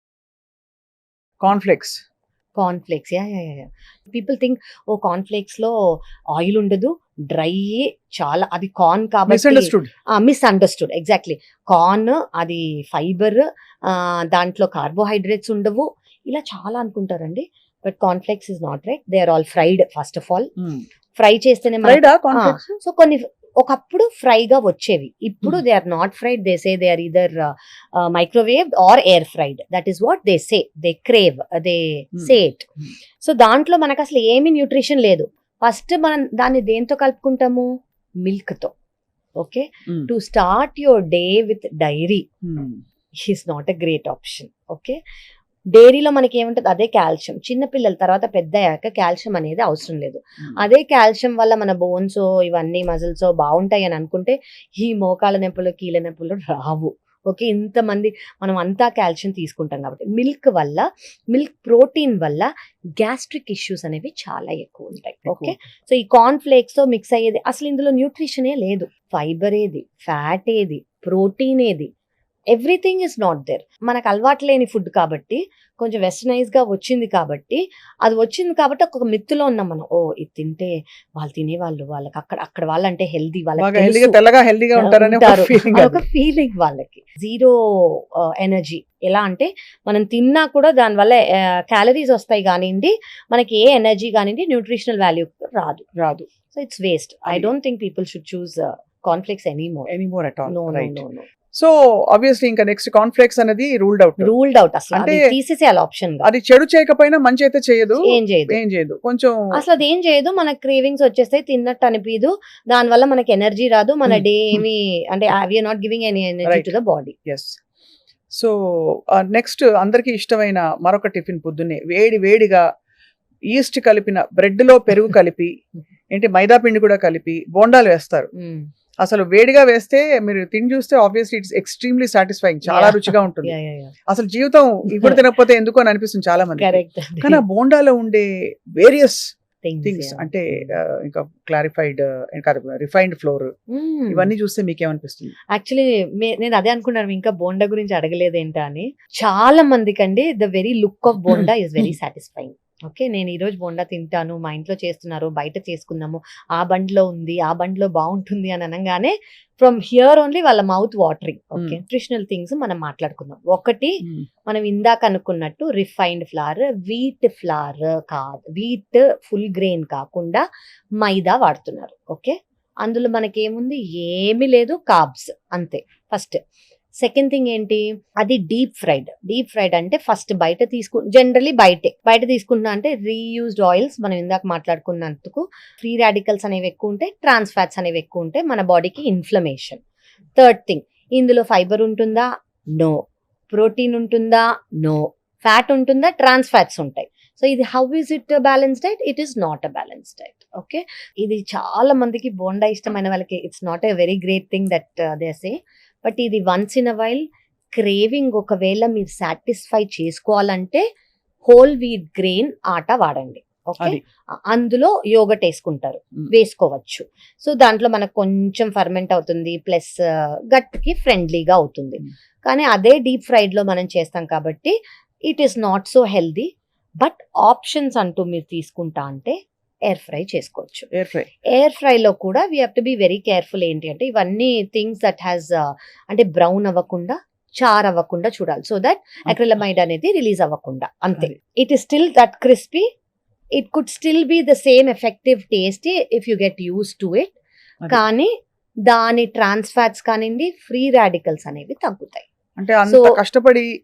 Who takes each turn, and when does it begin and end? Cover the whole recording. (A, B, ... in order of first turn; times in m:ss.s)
0:01.4-0:02.0 A
0:02.6-0:05.8 B
0:06.3-0:20.5 B
0:09.3-0:09.9 A
0:20.6-0:20.8 A
0:21.2-0:38.7 B
0:21.8-0:22.6 A
0:39.4-0:42.3 B
0:42.4-0:42.8 A
0:43.2-0:45.0 B
0:45.7-1:11.9 B
1:05.3-1:05.6 A
1:12.5-1:24.2 B
1:23.6-1:26.0 A
1:24.8-1:35.9 B
1:36.0-1:36.3 A
1:36.5-1:39.9 B
1:39.9-1:44.3 A
1:40.5-1:41.3 B
1:44.2-1:46.3 B
1:44.9-1:45.3 A
1:46.2-1:49.6 A
1:48.0-1:48.6 B
1:49.5-1:57.2 B
1:56.4-1:56.7 A
1:57.3-1:57.6 A
1:58.3-2:02.6 A
2:03.5-2:05.5 A
2:06.1-2:08.3 A
2:08.4-2:08.7 B
2:09.0-2:13.5 A
2:12.7-2:13.9 B
2:14.1-2:19.2 A
2:14.9-2:15.2 B
2:16.6-2:17.4 B
2:19.6-2:20.7 B
2:19.8-2:23.5 A
2:23.7-2:24.3 B
2:24.1-2:25.3 A
2:25.5-2:50.4 B
2:51.0-2:56.4 B
2:57.0-3:09.8 B
3:10.4-3:30.8 B
3:31.5-3:44.7 B
3:45.3-3:46.5 B
3:47.0-3:49.4 B
3:49.9-3:50.9 B
3:50.9-3:51.3 A
3:51.5-4:02.9 B
4:03.6-4:07.3 B
4:07.9-4:08.3 B
4:08.9-4:12.3 B
4:12.6-4:13.7 A
4:12.9-4:13.2 B